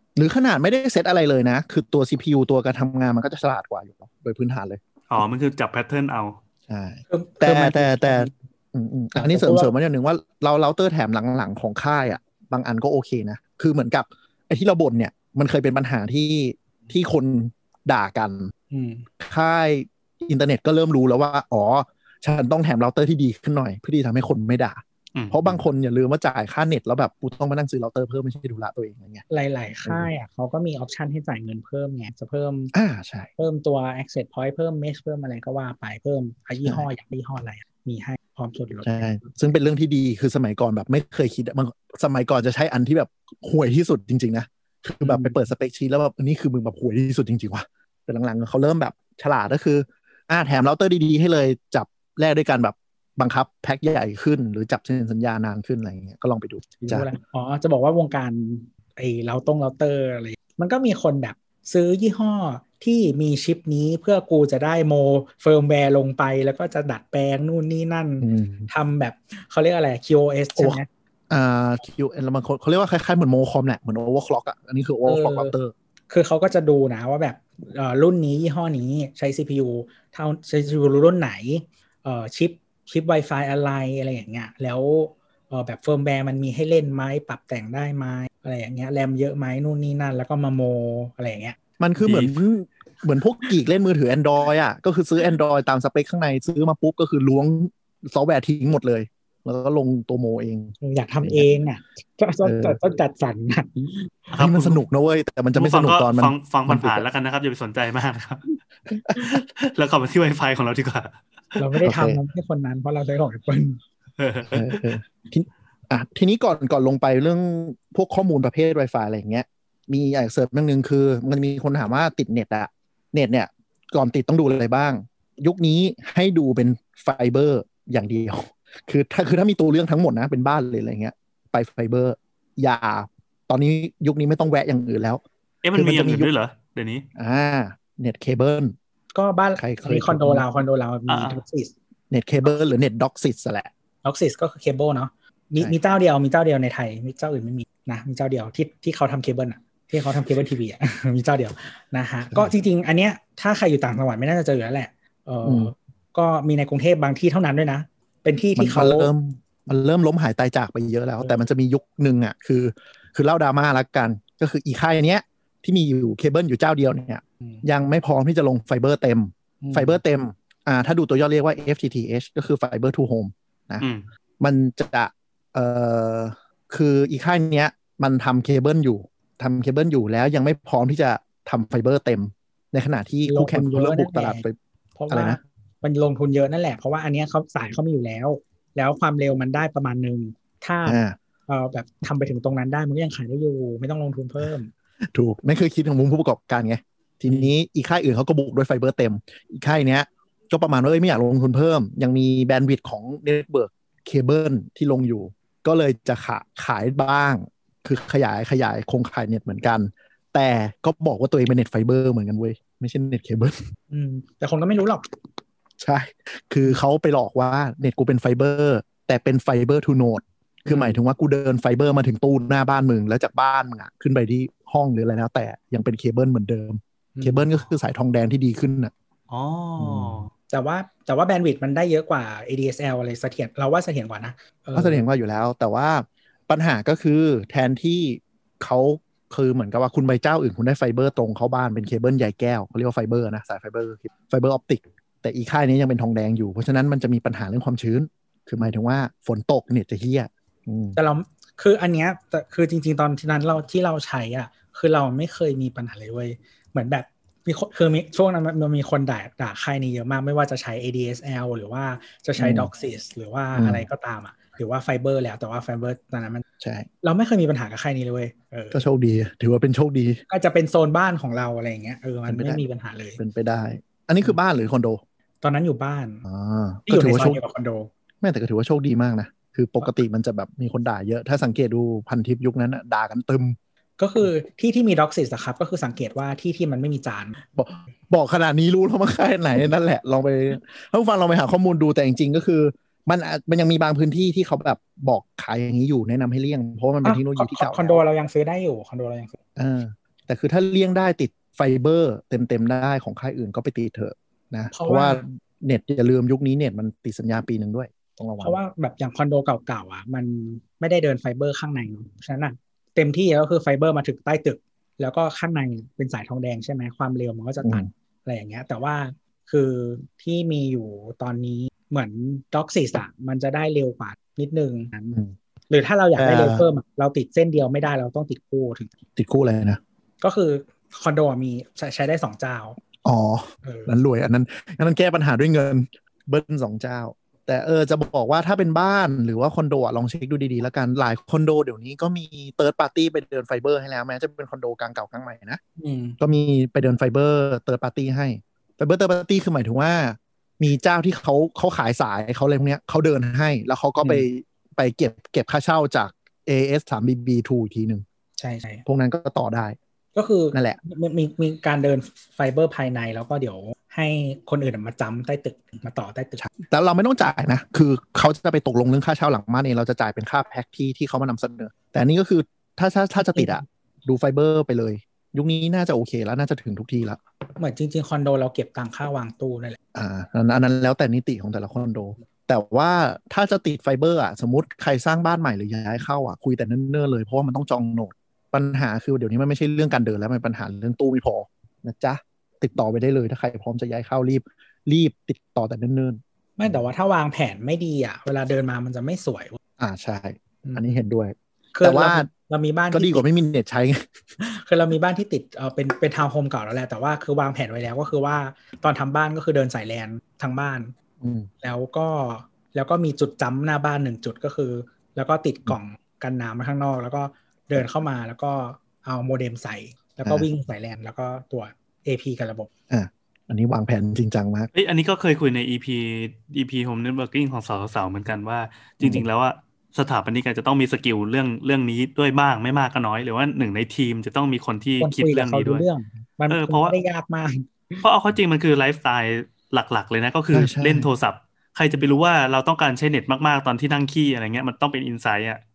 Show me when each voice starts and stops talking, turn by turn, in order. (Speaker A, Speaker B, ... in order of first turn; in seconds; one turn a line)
Speaker A: 0.2-4.8
Speaker B: 5.1-6.4
Speaker A: 6.7-18.5
Speaker C: 7.1-8.3
Speaker C: 9.2-9.7
Speaker C: 18.7-19.1
Speaker A: 19.2-29.2
Speaker B: 25.1-25.5
Speaker C: 29.3-32.7
Speaker A: 32.7-33.3
Speaker C: 33.4-39.1
Speaker A: 38.8-57.1
Speaker C: 45.0-45.4
Speaker C: 56.8-70.9
Speaker A: 68.2-68.7
Speaker A: 70.6-75.7
Speaker C: 75.0-75.5
Speaker C: 76.1-91.6
Speaker A: 91.8-101.5
Speaker B: 92.0-92.3
Speaker C: 100.8-104.3
Speaker A: 102.4-102.8
Speaker B: 104.3-104.8
Speaker A: 104.3-107.0
Speaker B: 105.5-108.5
Speaker A: 108.9-109.2
Speaker B: 109.2-111.6
Speaker C: 111.6-113.8
Speaker A: 111.8-112.2
Speaker B: 114.2-114.8
Speaker A: 114.5-135.2
Speaker B: 135.6-137.1
Speaker A: 135.8-136.3
Speaker A: 137.2-138.7
Speaker C: 139.1-141.7
Speaker A: 139.6-140.4
Speaker B: 141.1-141.4
Speaker A: 142.1-143.7
Speaker C: 144.0-159.1
Speaker A: 155.4-155.7
Speaker A: 158.6-173.9
Speaker C: 169.6-170.0
Speaker B: 173.8-174.1
Speaker A: 174.4-184.6
Speaker C: 183.2-184.4
Speaker C: 185.0-194.7
Speaker A: 185.1-185.4
Speaker A: 190.9-191.2
Speaker A: 195.1-213.6
Speaker C: 213.9-215.1
Speaker A: 215.8-228.9
Speaker C: 220.7-221.0
Speaker C: 227.2-227.5
Speaker B: 229.3-230.3
Speaker A: 229.8-230.2
Speaker C: 230.5-235.1
Speaker A: 234.8-251.0
Speaker C: 251.0-266.4
Speaker A: 262.4-262.7
Speaker A: 263.6-263.9
Speaker A: 266.6-266.9
Speaker C: 267.0-268.8
Speaker A: 268.7-270.2
Speaker C: 270.3-273.2
Speaker A: 272.3-272.6
Speaker A: 273.2-275.0
Speaker C: 275.4-276.2
Speaker A: 276.3-277.4
Speaker C: 276.9-277.9
Speaker A: 278.2-283.6
Speaker C: 284.0-287.4
Speaker A: 287.6-298.0
Speaker C: 297.0-299.4
Speaker A: 299.6-308.6
Speaker C: 304.7-305.2
Speaker C: 308.4-325.2
Speaker A: 317.6-317.9
Speaker C: 325.7-328.9
Speaker A: 326.2-326.7
Speaker A: 329.2-329.8
Speaker C: 330.2-332.8
Speaker A: 333.0-345.6
Speaker C: 333.6-333.9
Speaker C: 345.8-346.2
Speaker A: 346.2-358.0
Speaker C: 354.0-354.3
Speaker C: 358.4-358.8
Speaker A: 358.9-359.8
Speaker C: 360.1-366.4
Speaker A: 360.5-360.8
Speaker A: 366.4-377.2
Speaker C: 373.2-373.6
Speaker C: 377.6-379.8
Speaker A: 379.9-396.2
Speaker C: 396.6-399.6
Speaker A: 399.8-402.3
Speaker C: 400.6-400.9
Speaker C: 401.7-403.2
Speaker A: 402.9-404.0
Speaker C: 404.4-410.9
Speaker A: 411.2-411.5
Speaker C: 411.6-422.7
Speaker A: 422.9-424.7
Speaker B: 424.7-435.9
Speaker C: 435.0-438.0
Speaker B: 436.5-436.9
Speaker B: 438.0-445.6
Speaker A: 440.5-441.1